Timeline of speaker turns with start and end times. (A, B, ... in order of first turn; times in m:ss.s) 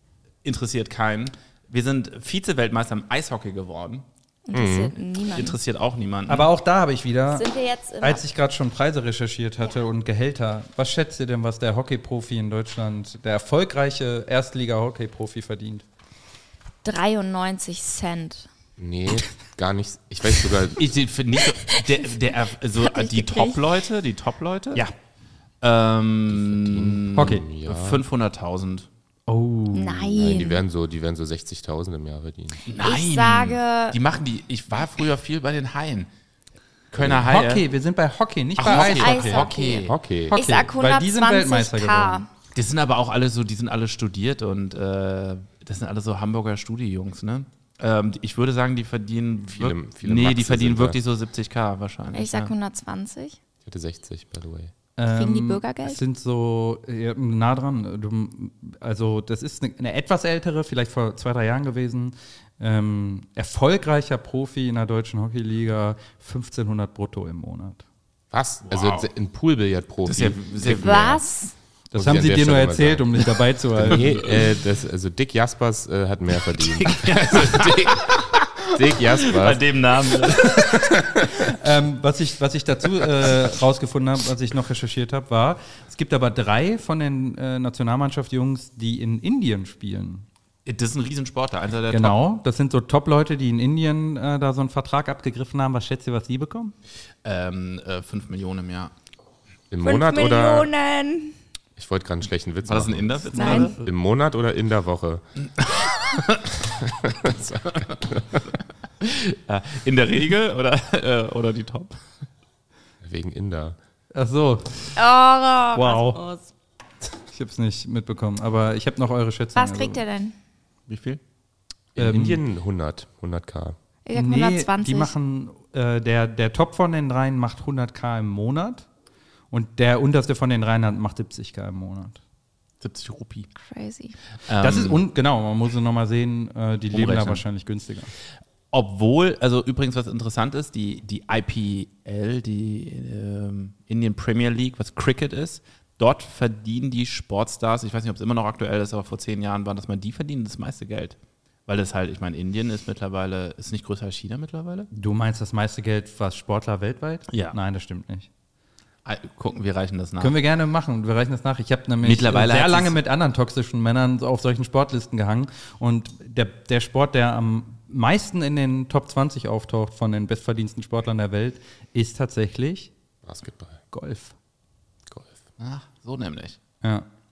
0:00.4-0:04.1 A
0:04.5-0:05.6 B
0:04.5-0:04.9 C
0:05.3-0:06.5 A
0:06.3-0:07.5 D
0:07.3-0:08.2 B
0:08.0-0:15.8 D
0:16.8-0:18.5 B
0:18.8-0:20.9 C
0:20.8-0:24.8 A
0:22.8-0:23.6 B
0:25.6-0:28.9 A
0:26.3-0:28.0 C
0:27.2-0:27.5 D
0:29.3-0:30.2 D
0:29.7-0:30.6 B
0:30.1-0:32.6 C
0:32.7-0:36.1 A
0:32.8-0:34.0 B
0:36.9-0:37.6 A
0:37.1-0:39.5 D
0:38.6-0:40.0 A
0:38.6-0:42.3 B
0:39.8-0:40.4 C
0:40.3-0:42.2 D
0:42.6-0:52.5 A
0:49.6-0:51.0 C
0:52.1-0:53.4 B
0:53.6-0:54.7 C
0:55.0-1:07.8 D
0:55.1-0:56.0 B
1:08.3-1:11.2 C
1:08.6-1:09.1 A
1:10.0-1:11.1 A
1:10.6-1:11.5 B
1:11.9-1:14.2 D
1:11.9-1:18.1 C
1:13.9-1:14.4 A
1:16.5-1:21.3 A
1:18.7-1:19.6 C
1:21.4-1:30.2 D
1:30.7-1:32.2 A
1:31.9-1:36.7 D
1:37.2-1:38.9 A
1:39.7-1:40.7 C
1:39.8-1:41.4 B
1:41.8-1:45.2 C
1:42.6-1:43.8 A
1:43.4-1:43.7 B
1:43.4-1:43.8 D
1:45.6-1:46.6 A
1:46.8-1:48.4 C
1:47.3-1:48.1 A
1:49.0-1:52.0 A
1:53.0-1:53.8 C
1:54.1-1:54.9 D
1:55.0-1:56.5 B
1:55.8-1:56.2 D
1:57.3-2:00.0 D
1:59.6-2:00.4 B
2:00.9-2:01.2 A
2:02.0-2:03.8 C
2:02.0-2:02.4 D
2:04.1-2:05.1 B
2:04.2-2:08.9 D
2:09.5-2:12.2 D
2:12.8-2:13.5 A
2:13.6-2:14.2 B
2:14.5-2:15.0 A
2:14.6-2:18.1 D
2:16.9-2:17.4 A
2:18.7-2:34.9 A
2:34.9-2:38.3 D
2:37.3-2:37.6 A
2:39.0-2:40.3 A
2:40.2-2:52.9 D
2:42.0-2:43.0 A
2:53.2-2:53.8 C
2:53.9-2:54.3 D
2:55.1-2:55.4 C
2:55.6-2:56.6 A
2:56.8-2:57.1 D